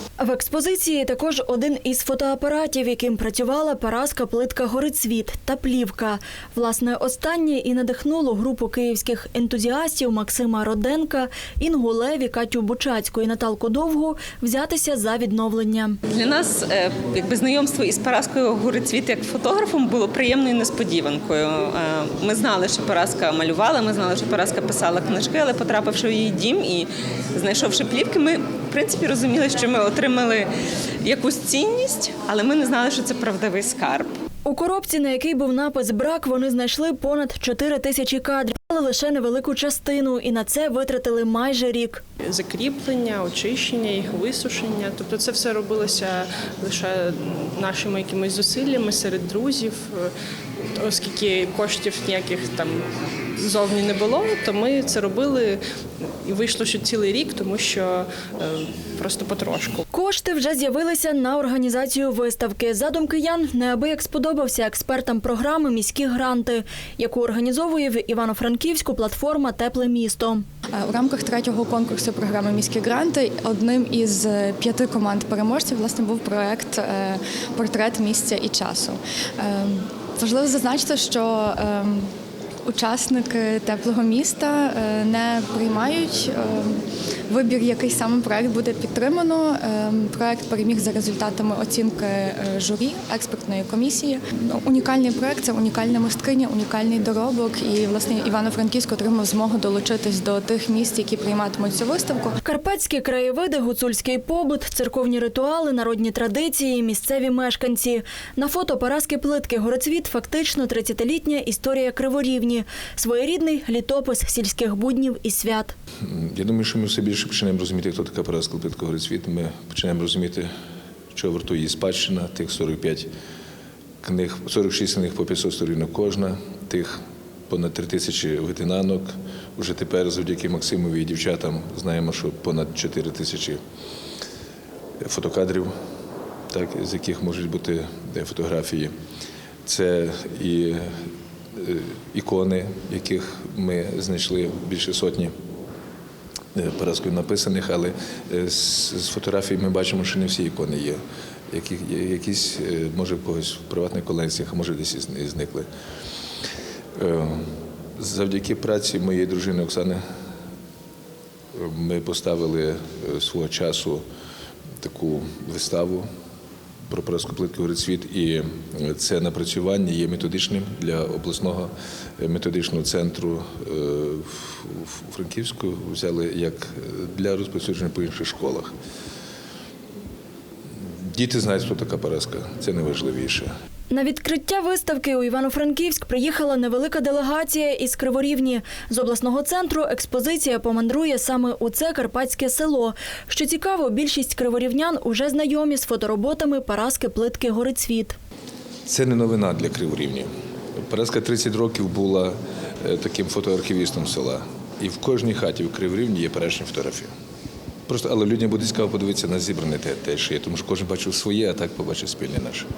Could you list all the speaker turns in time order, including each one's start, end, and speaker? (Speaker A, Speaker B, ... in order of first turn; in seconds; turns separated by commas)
Speaker A: 0.2-16.0, Speaker B: 16.1-30.5, Speaker B: 31.0-34.1, Speaker A: 34.5-42.0, Speaker C: 42.2-50.1, Speaker C: 50.8-52.9, Speaker C: 53.4-55.6, Speaker C: 56.2-59.8, Speaker A: 59.9-70.5, Speaker D: 70.8-82.1, Speaker D: 82.7-102.4, Speaker A: 102.4-115.8, Speaker E: 116.0-120.5, Speaker E: 121.1-123.1, Speaker E: 124.0-133.6, Speaker E: 135.0-135.7, Speaker E: 136.5-138.9, Speaker E: 139.7-140.9, Speaker E: 141.6-145.3, Speaker E: 146.6-155.7, Speaker E: 157.0-160.0, Speaker E: 161.5-164.0, Speaker E: 164.8-166.1, Speaker E: 166.9-178.7, Speaker E: 181.0-183.5, Speaker A: 183.9-198.2, Speaker E: 198.9-200.3, Speaker E: 200.8-207.1, Speaker E: 207.9-212.7